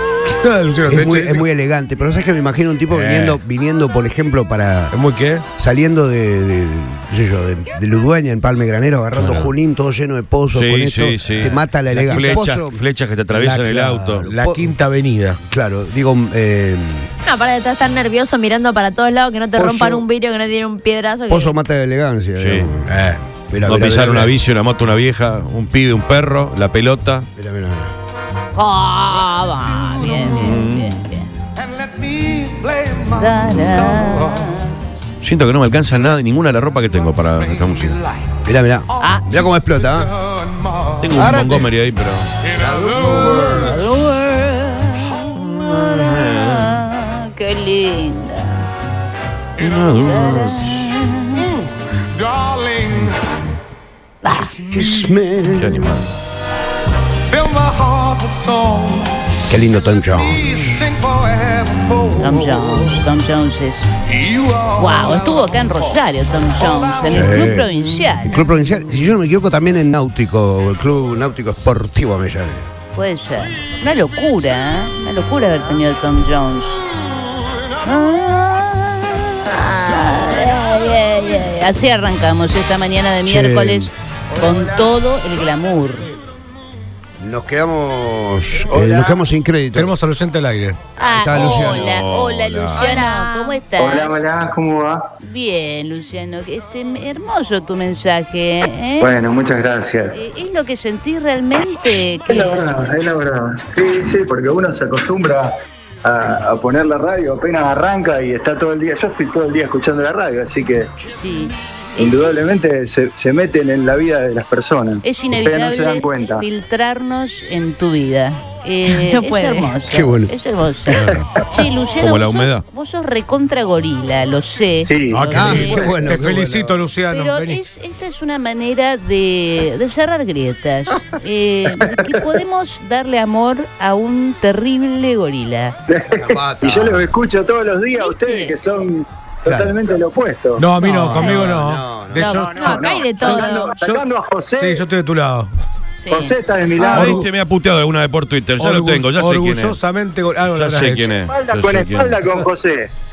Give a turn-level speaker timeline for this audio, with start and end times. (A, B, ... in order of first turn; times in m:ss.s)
0:00.3-0:01.4 A
0:00.9-0:04.9 B
0:02.9-0:03.4 A
0:04.9-0:05.4 A
0:05.6-0:12.8 B
0:09.2-0:09.5 C
0:10.5-0:14.3 C
0:11.9-0:12.4 A
0:13.3-0:15.4 A
0:13.9-0:14.7 B
0:15.5-0:17.1 B
0:17.2-0:21.5 D
0:19.5-0:20.0 B
0:21.3-0:22.9 B
0:22.4-0:22.7 C
0:22.9-0:23.2 A
0:23.5-0:24.3 B
0:23.6-0:27.3 C
0:27.4-0:27.9 B
0:28.5-0:31.3 E
0:30.3-0:31.0 C
0:33.0-0:34.7 E
0:35.2-0:38.0 C
0:38.4-0:40.1 B
0:39.0-0:39.4 E
0:41.0-0:42.3 C
0:41.1-0:41.7 B
0:42.5-0:43.8 B
0:43.0-0:48.7 E
0:45.3-0:46.8 C
0:49.6-0:50.9 C
0:50.0-0:51.5 E
0:54.2-0:54.6 E
0:54.5-0:55.9 B
0:55.5-0:56.1 C
0:59.5-1:00.8 B
1:01.5-1:02.3 C
1:02.2-1:08.5 E
1:07.0-1:12.7 B
1:12.9-1:16.8 E
1:17.8-1:26.1 E
1:23.2-1:23.9 B
1:27.2-1:29.9 B
1:29.7-1:30.8 A
1:31.0-1:34.2 E
1:31.0-1:32.0 B
1:31.3-1:32.8 C
1:32.7-1:33.6 D
1:33.8-1:35.1 F
1:35.2-1:39.2 E
1:39.0-1:40.2 F
1:40.1-1:42.6 E
1:42.3-1:45.5 F
1:46.0-1:50.9 F
1:51.1-1:52.5 E
1:52.0-1:56.4 F
1:55.0-2:06.1 E
1:58.8-1:59.7 D
1:59.9-2:00.3 B
2:01.0-2:01.3 C
2:02.0-2:02.6 C
2:04.8-2:05.4 F
2:05.1-2:07.6 A
2:05.3-2:06.8 B
2:07.1-2:15.8 E
2:11.8-2:12.2 F
2:15.9-2:20.7 F
2:16.1-2:17.1 B
2:18.0-2:18.6 E
2:20.6-2:25.5 A
2:20.8-2:22.5 B
2:21.2-2:21.5 D
2:22.2-2:22.5 E
2:22.5-2:23.7 D
2:22.5-2:24.8 F
2:26.0-2:26.4 E
2:26.1-2:27.2 F
2:26.8-2:27.3 A
2:26.9-2:29.8 C
2:28.6-2:31.1 A
2:30.5-2:32.3 C
2:31.2-2:32.9 F